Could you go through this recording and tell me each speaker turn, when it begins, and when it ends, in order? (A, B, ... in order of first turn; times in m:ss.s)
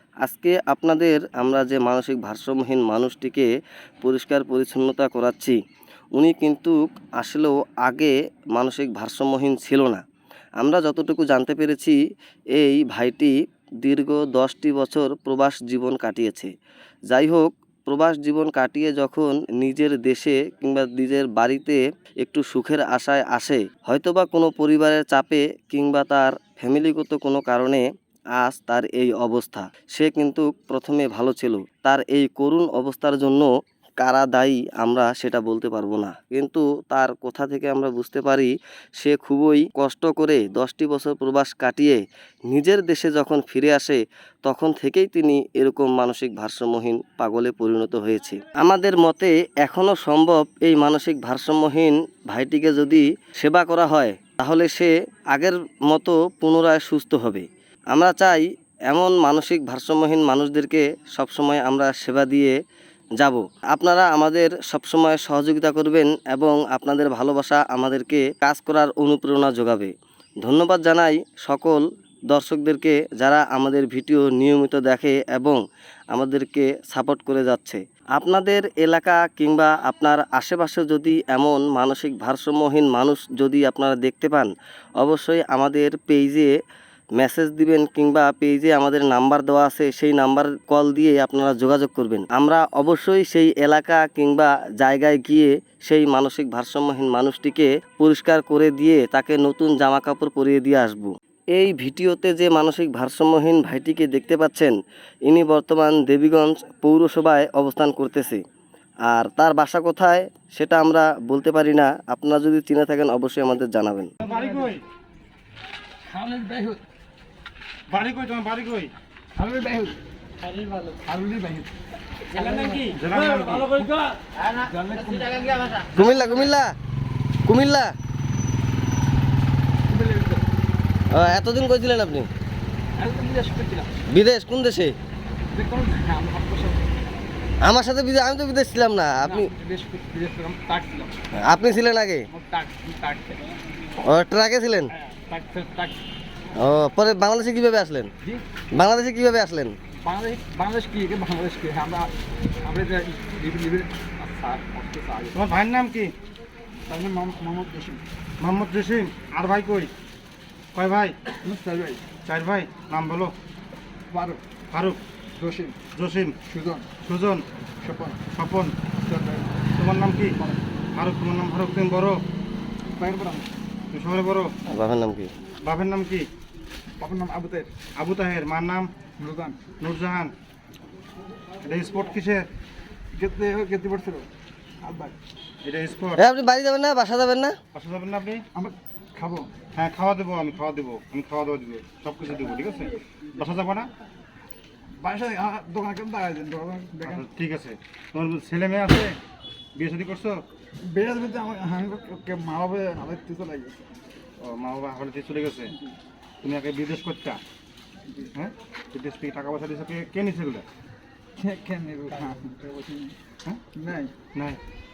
0:00.2-0:03.5 A
0:04.0-0:05.6 A
0:06.2-0:10.0 A
0:10.6-0:12.0 A
0:12.6-0:16.5 A
0:17.1-0:27.8 A
0:28.4-1:02.6 A
1:03.2-1:09.9 A
1:10.4-1:15.6 A
1:16.1-1:26.6 A
1:27.2-1:48.4 A
1:49.1-1:54.1 A
1:54.2-1:54.8 B
1:56.1-1:56.8 C
1:57.9-1:58.9 B
1:59.4-2:00.0 C
2:01.0-2:01.7 C
2:02.4-2:02.8 C
2:03.0-2:03.8 B
2:04.6-2:05.9 C
2:05.9-2:06.7 A
2:07.5-2:07.9 A
2:09.9-2:10.4 C
2:11.1-2:12.3 A
2:13.0-2:13.9 C
2:14.1-2:15.0 A
2:15.6-2:17.0 C
2:17.6-2:19.5 A
2:19.2-2:21.2 C
2:21.4-2:22.3 A
2:22.3-2:23.5 C
2:24.0-2:24.9 A
2:25.0-2:26.0 C
2:26.5-2:28.1 A
2:28.7-2:29.8 A
2:30.0-2:35.4 C
2:35.3-2:36.1 B
2:36.9-2:38.0 C
2:38.4-2:39.9 B
2:40.8-2:41.2 B
2:41.4-2:42.0 C
2:42.3-2:43.3 B
2:44.1-2:44.4 C
2:44.7-2:45.0 B
2:45.4-2:45.8 C
2:46.0-2:46.4 B
2:46.5-2:46.9 C
2:47.0-2:47.4 B
2:47.8-2:48.2 C
2:48.4-2:48.8 B
2:49.1-2:49.5 C
2:49.7-2:50.4 B
2:51.0-2:52.2 B
2:53.0-2:53.5 C
2:53.9-2:54.5 B
2:54.7-2:55.3 A
2:55.6-2:56.3 B
2:57.0-2:57.7 C
2:58.0-2:58.9 B
2:59.2-2:59.6 C
2:59.8-3:00.3 B
3:01.6-3:02.5 B
3:03.1-3:04.3 C
3:04.8-3:05.2 C
3:05.6-3:06.2 B
3:06.2-3:07.6 A
3:07.7-3:08.4 B
3:08.6-3:09.5 C
3:09.8-3:13.9 B
3:15.0-3:17.3 C
3:17.0-3:19.2 B
3:19.8-3:20.4 B
3:20.9-3:23.9 C
3:24.4-3:25.7 B
3:26.4-3:27.4 B
3:28.4-3:30.7 B
3:31.4-3:33.2 C
3:33.8-3:34.1 C
3:34.3-3:34.6 B